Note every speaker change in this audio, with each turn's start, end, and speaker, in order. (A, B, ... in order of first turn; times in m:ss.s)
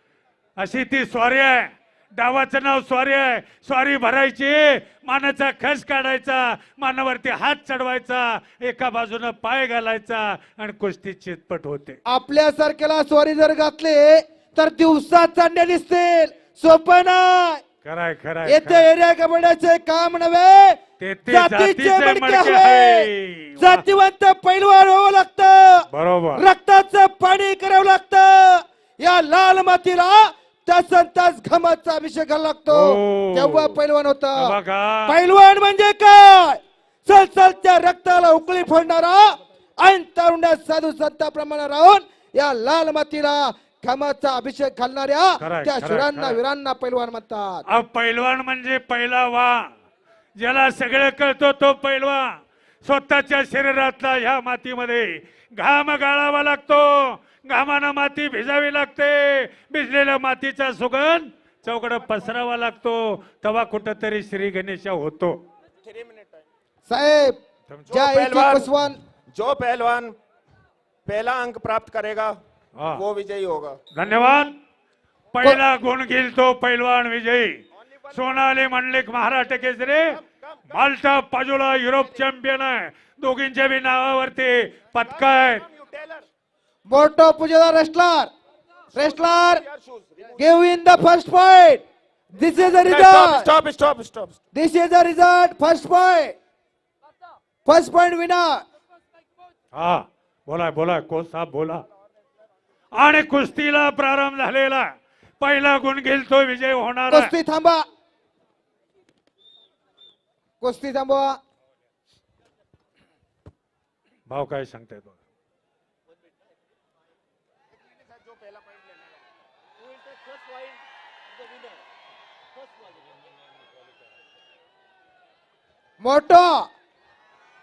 0:00.6-0:12.0 A
0:12.1-0:17.6 B
0:17.8-0:18.9 A
0:18.4-0:47.6 B
0:21.0-0:23.8 A
0:25.9-0:26.4 A
0:32.7-0:33.8 A
0:34.4-0:35.2 A
0:45.4-0:46.4 A
0:47.7-0:49.7 A
0:50.4-1:05.4 A
1:05.8-1:06.4 C
1:06.9-1:07.4 B
1:07.7-1:08.0 A
1:07.9-1:08.7 C
1:07.9-1:09.0 B
1:09.3-1:10.1 C
1:11.0-1:12.4 C
1:12.9-1:13.8 C
1:13.9-1:14.5 A
1:15.3-1:17.6 A
1:17.9-1:18.2 C
1:18.1-1:20.2 A
1:20.1-1:20.7 C
1:20.7-1:25.6 A
1:25.0-1:26.2 C
1:26.9-1:28.3 B
1:28.9-1:29.6 B
1:29.0-1:30.3 C
1:30.4-1:33.5 B
1:32.8-1:34.4 C
1:34.5-1:36.3 B
1:37.6-1:38.6 B
1:39.7-1:41.8 A
1:42.9-1:44.9 A
1:45.4-1:47.3 A
1:47.1-1:47.8 B
1:50.6-1:51.4 B
1:54.3-1:55.1 A
2:06.0-2:06.7 B